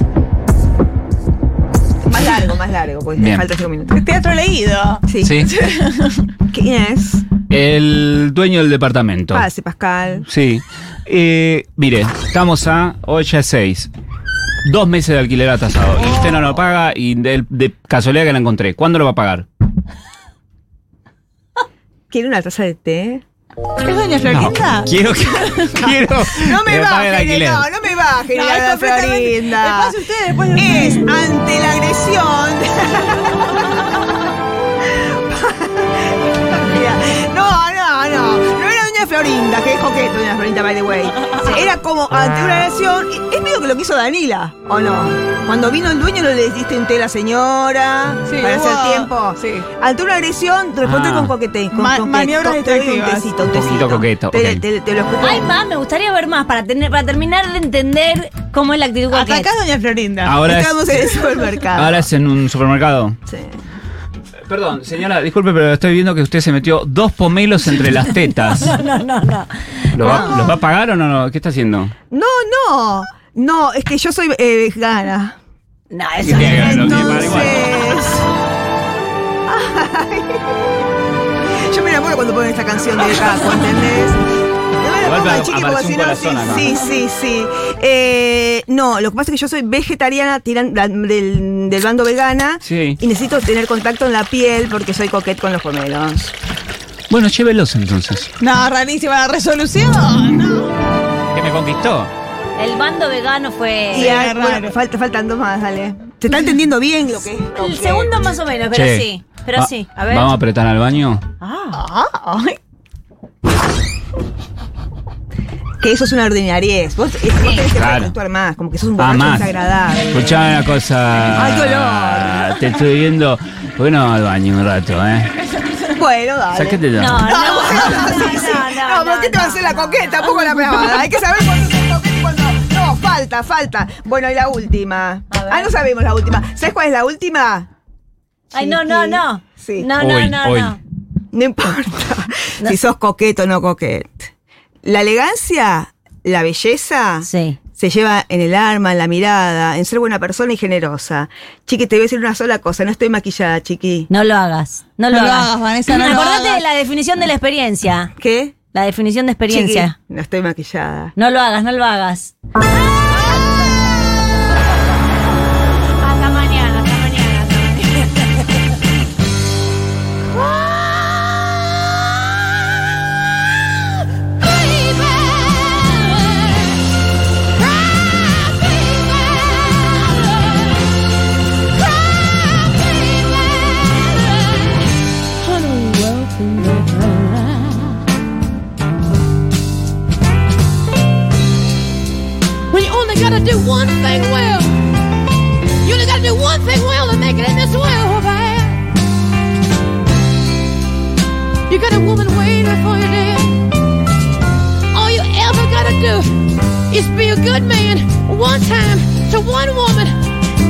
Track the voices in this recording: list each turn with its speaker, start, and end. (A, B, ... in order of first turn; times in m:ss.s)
0:02.0-0:04.0 A
0:03.2-0:03.4 B
0:03.9-0:06.3 C
0:05.1-0:05.4 A
0:05.2-0:05.5 B
0:06.5-0:07.2 A
0:07.5-0:09.5 B
0:09.3-0:10.2 A
0:10.3-0:13.9 B
0:14.6-0:19.4 B
0:22.1-0:23.2 A
0:23.8-0:24.9 C
0:24.3-0:27.6 B
0:25.5-0:25.9 C
0:26.4-0:29.9 A
0:28.3-0:31.2 C
0:30.5-0:33.8 A
0:35.3-0:55.5 A
0:48.3-0:49.7 C
0:50.8-0:51.3 B
0:51.7-0:53.3 C
0:53.4-0:54.6 B
0:55.2-0:59.5 D
0:59.1-1:00.4 C
1:00.2-1:01.2 B
1:00.4-1:02.1 A
1:01.7-1:03.2 B
1:03.3-1:03.6 A
1:04.5-1:08.7 B
1:08.3-1:10.5 D
1:09.9-1:11.9 B
1:10.1-1:10.4 A
1:12.1-1:15.4 A
1:15.9-1:17.6 D
1:16.2-1:17.9 B
1:16.3-1:18.3 A
1:19.5-1:20.4 A
1:21.7-1:24.2 A
1:24.8-1:36.3 A
1:25.0-1:26.7 B
1:32.6-1:33.0 B
1:37.1-1:38.3 B
1:38.4-1:40.7 C
1:41.3-1:42.1 B
1:42.6-1:44.2 D
1:43.9-1:44.7 C
1:44.0-1:48.1 A
1:47.5-1:50.3 D
1:48.7-1:51.2 B
1:51.4-1:51.8 D
1:51.7-1:52.6 C
1:55.8-2:00.4 A
1:57.7-1:58.1 B
1:59.0-1:59.5 B
2:00.1-2:05.3 B
2:01.3-2:02.4 A
2:05.5-2:05.9 C
2:05.9-2:17.7 A
2:06.5-2:07.5 B
2:06.9-2:10.3 D
2:07.6-2:07.9 C
2:15.3-2:15.7 D
2:18.5-2:20.8 D
2:18.5-2:19.9 A
2:20.0-2:20.8 B
2:21.3-2:24.2 A
2:24.8-2:34.1 A
2:27.2-2:27.6 D
2:34.1-2:38.1 D
2:35.1-2:36.6 C
2:38.2-2:38.5 A
2:38.7-2:39.9 D
2:39.5-2:41.1 A
2:41.2-2:42.3 D
2:43.0-2:43.6 D
2:46.0-2:48.3 D
3:02.8-3:03.5 E
3:05.5-3:07.3 E
3:12.7-3:14.8 E
3:15.8-3:18.8 E
3:21.7-3:23.6 E
3:24.9-3:30.2 E